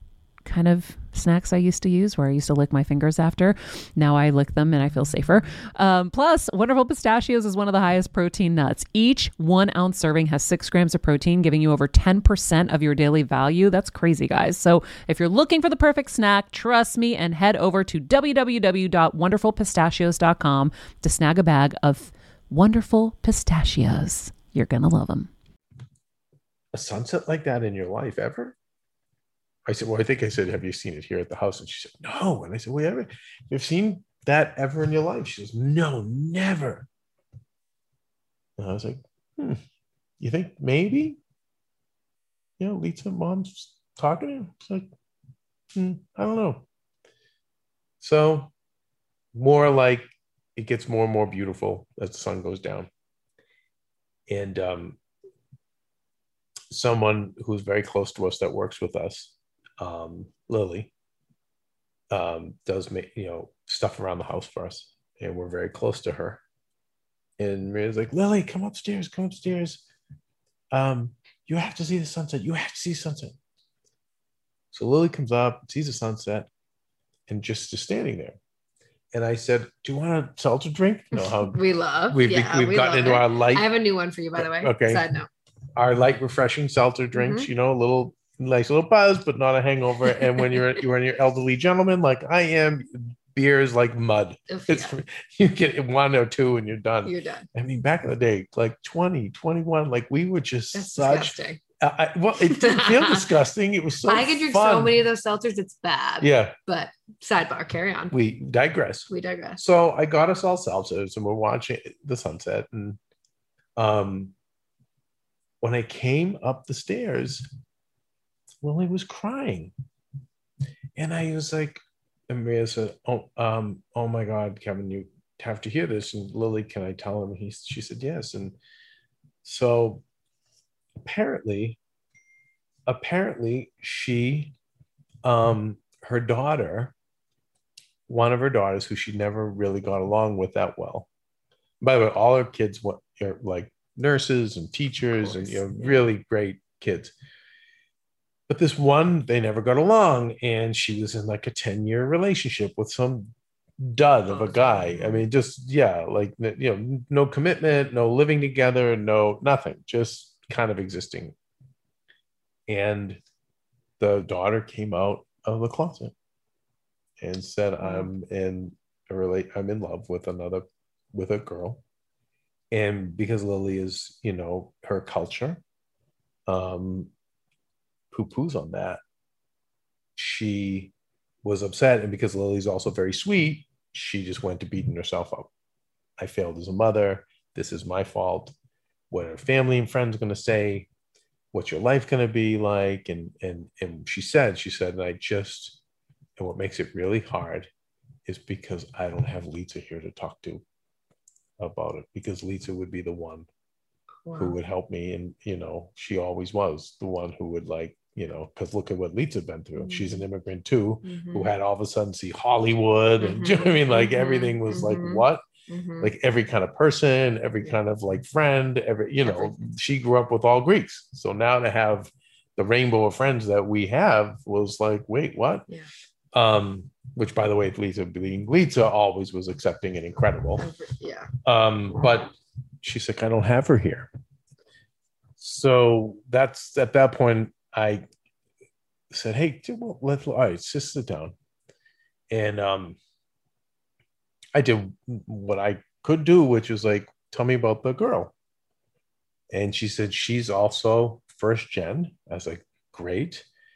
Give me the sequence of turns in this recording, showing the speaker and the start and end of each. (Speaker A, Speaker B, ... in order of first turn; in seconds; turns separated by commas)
Speaker A: 0.5-25.3, Speaker B: 26.7-28.6, Speaker B: 29.7-36.9, Speaker B: 38.6-39.6, Speaker B: 40.2-41.2, Speaker B: 42.6-44.9, Speaker B: 45.7-46.7, Speaker B: 48.0-48.5, Speaker B: 49.3-52.9, Speaker B: 54.3-55.0, Speaker B: 56.7-60.9, Speaker B: 62.1-66.4, Speaker B: 67.4-69.8, Speaker B: 70.7-73.4, Speaker B: 74.7-76.5, Speaker B: 77.3-78.4, Speaker B: 79.1-83.7, Speaker C: 81.1-85.3, Speaker B: 84.4-85.0, Speaker B: 85.8-105.0, Speaker C: 87.2-87.5, Speaker C: 94.5-94.9, Speaker C: 97.0-97.5, Speaker C: 100.7-101.6, Speaker C: 102.4-103.3, Speaker C: 104.0-108.1, Speaker B: 106.2-106.5, Speaker B: 108.1-113.0, Speaker C: 109.1-109.6, Speaker B: 113.8-114.3, Speaker B: 115.6-117.5, Speaker B: 118.6-119.7, Speaker B: 121.0-128.6, Speaker B: 129.4-130.0, Speaker B: 131.0-131.8, Speaker B: 132.9-134.5, Speaker B: 135.2-136.9, Speaker B: 138.1-141.1, Speaker B: 141.8-147.1, Speaker C: 145.2-146.0, Speaker B: 148.5-161.3, Speaker C: 154.3-155.3, Speaker B: 162.7-163.2, Speaker B: 164.0-166.1, Speaker B: 167.2-171.8, Speaker C: 167.8-168.1, Speaker B: 172.7-175.6, Speaker B: 176.5-177.1, Speaker B: 178.1-179.0, Speaker B: 180.2-180.9, Speaker B: 181.4-185.5, Speaker B: 186.2-188.5, Speaker B: 189.1-190.9, Speaker B: 191.5-195.8, Speaker B: 196.4-197.7, Speaker B: 198.3-200.6, Speaker B: 201.6-203.5, Speaker C: 204.2-204.6, Speaker B: 204.4-215.4, Speaker C: 209.8-210.2, Speaker C: 211.1-211.5, Speaker C: 213.2-216.1, Speaker B: 216.0-225.7, Speaker C: 219.2-219.5, Speaker B: 226.3-230.7, Speaker C: 230.6-231.3, Speaker B: 231.4-234.1, Speaker B: 235.4-238.1, Speaker B: 239.1-241.3, Speaker B: 242.3-243.0, Speaker B: 244.6-248.3, Speaker B: 249.5-253.5